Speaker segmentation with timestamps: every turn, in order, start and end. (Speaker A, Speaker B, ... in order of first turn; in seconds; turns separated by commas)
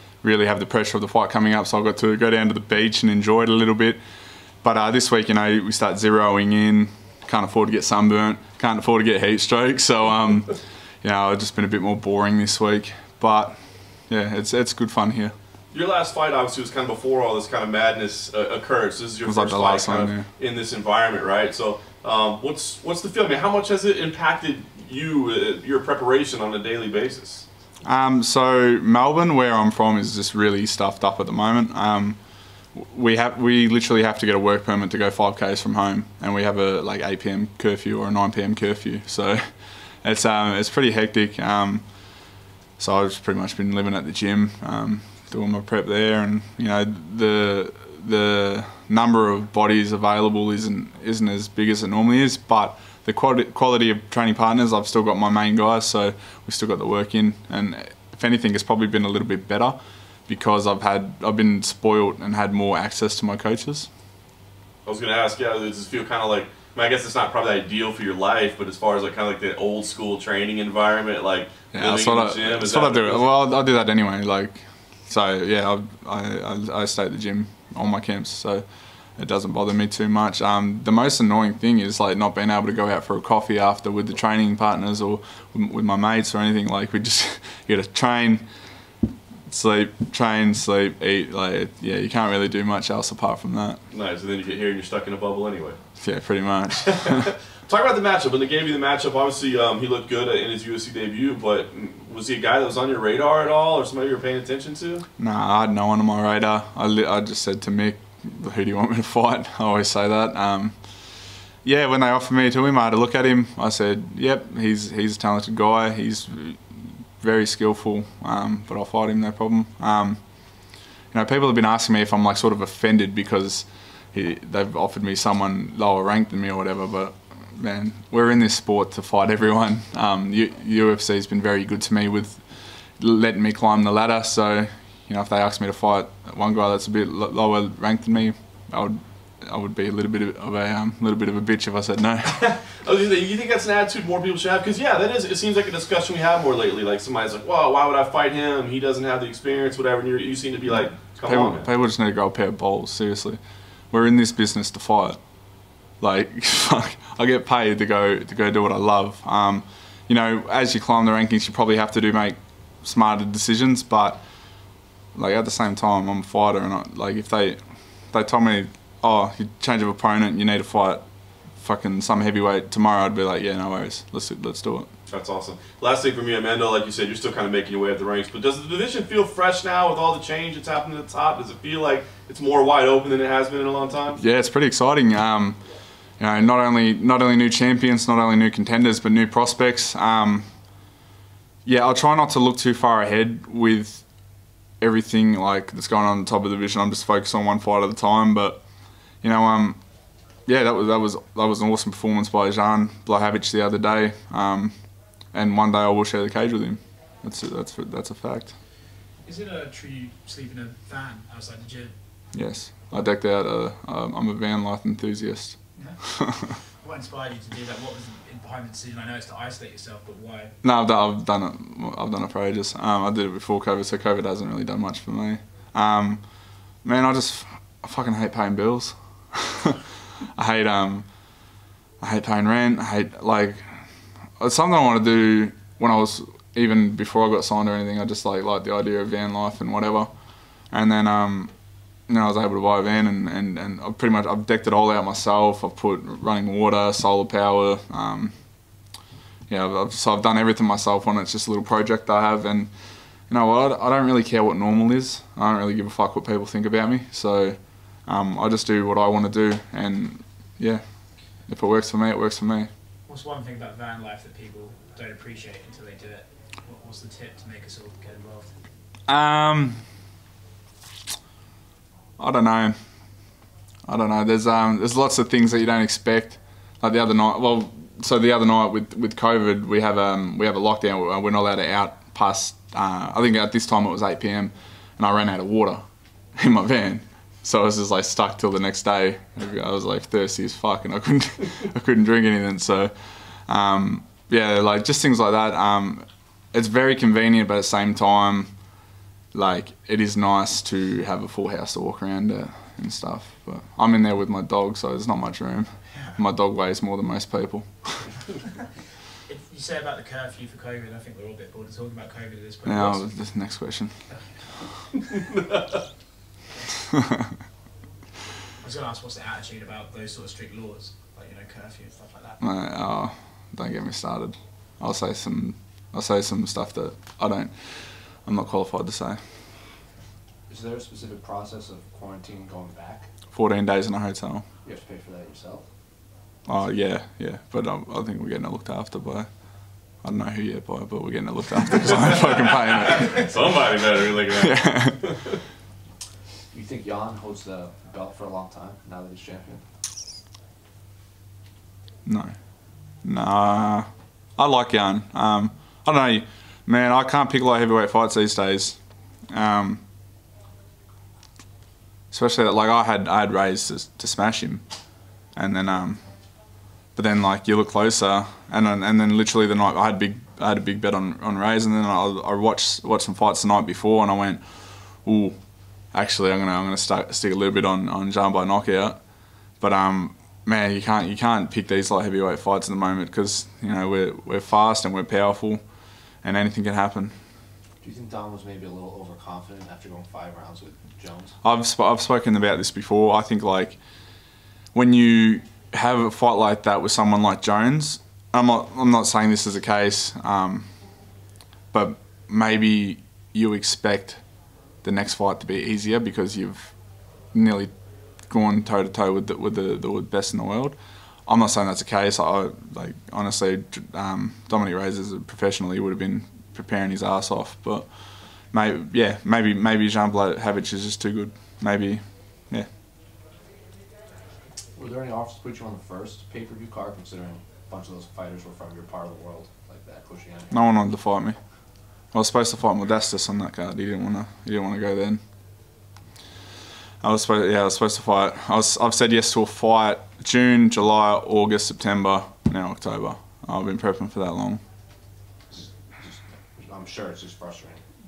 Speaker A: 0.2-4.0, Speaker A: 4.6-15.3, Speaker B: 15.7-27.5, Speaker A: 19.2-20.3, Speaker A: 27.8-63.9, Speaker B: 64.8-73.3, Speaker A: 71.7-88.5, Speaker A: 89.5-93.8, Speaker B: 93.9-95.8, Speaker A: 96.0-97.3, Speaker B: 96.8-105.0, Speaker A: 105.2-111.0, Speaker A: 111.6-142.4, Speaker B: 142.3-151.7, Speaker A: 151.2-153.4, Speaker A: 153.9-155.2, Speaker A: 155.8-164.3, Speaker A: 165.1-174.9, Speaker B: 175.1-184.2, Speaker A: 184.2-185.6, Speaker A: 186.2-190.5, Speaker A: 191.6-194.1, Speaker A: 194.8-199.8, Speaker A: 200.4-208.5, Speaker C: 209.2-211.9, Speaker A: 212.3-216.5, Speaker C: 215.8-216.1, Speaker C: 216.8-220.5, Speaker A: 220.6-229.8, Speaker A: 230.3-231.3, Speaker A: 232.0-233.9, Speaker A: 234.4-248.3, Speaker A: 249.5-252.7, Speaker A: 253.2-262.7, Speaker C: 263.1-268.6, Speaker A: 269.1-269.8, Speaker A: 272.2-272.8, Speaker A: 273.9-285.8, Speaker A: 286.3-298.6, Speaker A: 299.3-308.1, Speaker C: 309.3-313.1, Speaker A: 312.6-314.0, Speaker C: 314.1-315.3, Speaker C: 318.6-322.4, Speaker A: 322.4-329.2, Speaker D: 330.5-333.1, Speaker A: 333.3-334.4, Speaker D: 334.6-335.7, Speaker A: 336.4-343.2, Speaker B: 342.9-345.4, Speaker A: 344.4-345.0, Speaker D: 346.5-349.6, Speaker A: 352.0-352.3, Speaker A: 353.0-359.8, Speaker A: 362.1-364.6, Speaker A: 365.3-366.0, Speaker A: 366.9-387.1, Speaker D: 387.8-391.4, Speaker A: 391.4-393.8, Speaker A: 394.7-401.1, Speaker A: 401.7-404.3, Speaker A: 404.8-407.7, Speaker A: 408.2-422.7, Speaker D: 424.7-430.6, Speaker A: 430.5-431.4, Speaker A: 432.1-435.2, Speaker A: 437.0-444.6, Speaker D: 445.5-447.8